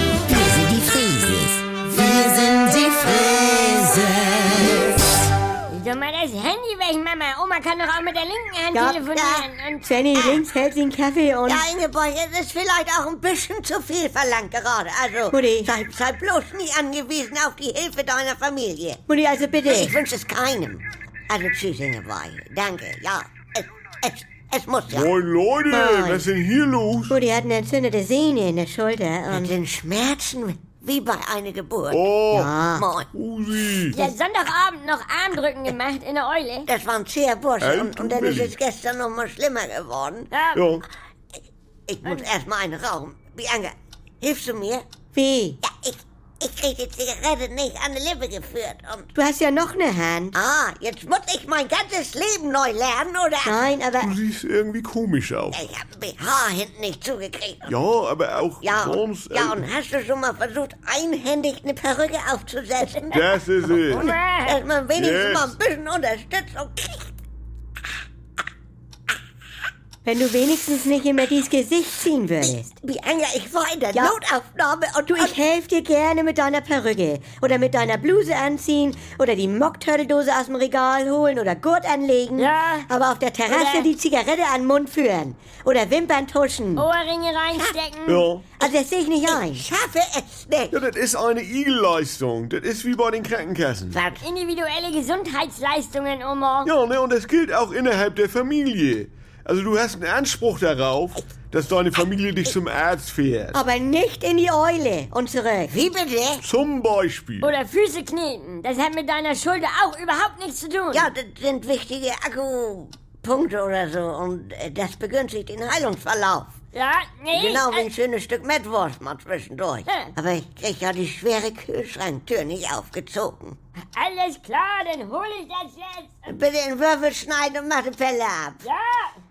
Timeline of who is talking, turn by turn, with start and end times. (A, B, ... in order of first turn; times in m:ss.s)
0:00.3-0:04.8 A
0:05.7-0:09.9 B
0:08.7-0:09.0 C
0:09.0-0:09.5 A
0:09.8-0:11.7 C
0:10.2-0:10.4 A
0:11.5-0:19.0 A
0:15.3-0:15.7 C
0:19.1-0:20.0 C
0:19.6-0:25.1 A
0:24.9-0:27.2 D
0:25.7-0:26.2 C
0:27.1-0:29.6 C
0:29.3-0:32.1 A
0:31.9-0:32.5 D
0:32.3-0:32.9 C
0:32.7-0:33.1 A
0:33.1-0:34.0 D
0:33.9-0:36.7 B
0:36.7-0:40.3 A
0:37.6-0:38.6 D
0:40.3-0:40.6 B
0:40.6-0:40.8 D
0:41.9-0:44.8 A
0:45.2-0:45.6 C
0:45.6-0:49.1 A
0:49.2-0:50.4 C
0:50.3-0:53.6 A
0:53.4-0:54.1 C
0:54.0-0:55.6 D
0:55.5-0:57.8 A
0:57.7-0:59.6 D
0:58.6-1:07.1 A
1:03.1-1:04.1 D
1:03.9-1:04.6 B
1:05.0-1:05.6 D
1:10.0-1:12.7 C
1:12.4-1:15.4 A
1:13.9-1:14.2 C
1:15.1-1:26.9 C
1:22.4-1:22.9 B
1:23.5-1:23.9 B
1:26.8-1:28.3 B
1:28.1-1:28.4 D
1:28.6-1:29.7 C
1:29.2-1:30.8 A
1:30.7-1:34.0 D
1:33.9-1:34.2 A
1:34.2-1:36.7 B
1:36.6-1:43.6 D
1:43.5-1:45.8 C
1:45.7-1:46.4 A
1:46.4-1:47.5 D
1:47.4-1:51.1 B
1:50.9-1:56.5 A
1:56.7-1:57.9 B
1:57.3-2:03.6 A
2:04.0-2:06.2 B
2:06.3-2:08.6 A
2:08.6-2:09.1 B